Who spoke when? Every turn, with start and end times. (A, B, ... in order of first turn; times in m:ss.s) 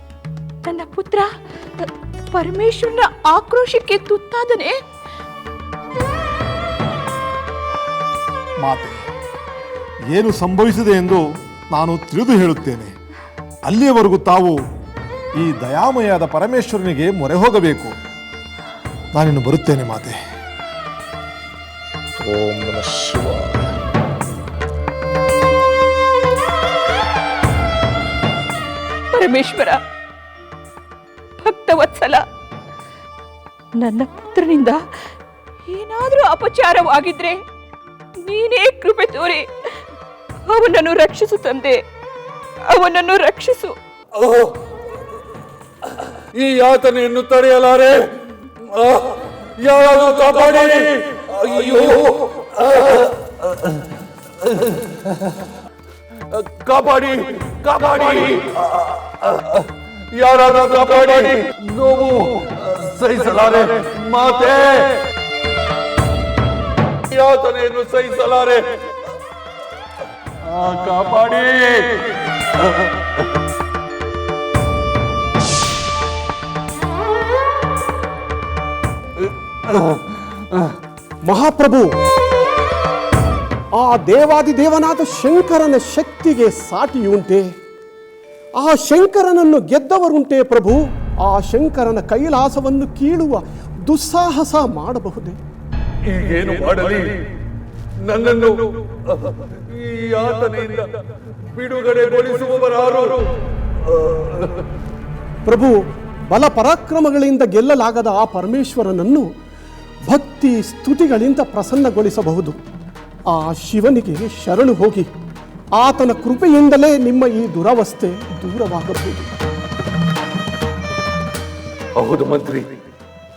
0:00.6-0:04.8 A
0:08.6-0:09.0 B
0:10.1-0:12.9 B
0:13.7-0:14.6 B
0:15.4-0:17.9 B
0:19.1-0:20.2 B
0:22.2-0:23.5 B
0:29.1-0:29.8 A
0:31.4-0:32.2 A
0:33.8-0:35.1 A
0:35.7-0:37.4 A
0:38.2-0:39.8 A
0:40.5-0:41.8 A
0:42.7-0:43.8 A
0:44.2-0:44.6 C
0:46.4-0:48.1 C
0:48.7-0:53.1 C
0:56.3-1:05.0 C
1:07.1-1:08.8 C
1:10.4-1:12.1 C
1:21.3-1:21.9 D
1:23.8-1:27.5 D
1:28.6-1:35.4 D
1:36.0-1:37.3 C
1:38.0-1:41.0 C
1:41.5-1:43.3 C
1:44.2-1:44.5 C
1:45.4-1:49.3 D
1:50.1-1:52.6 D
1:53.3-1:55.1 D
1:55.8-1:59.3 D
2:02.0-2:02.7 C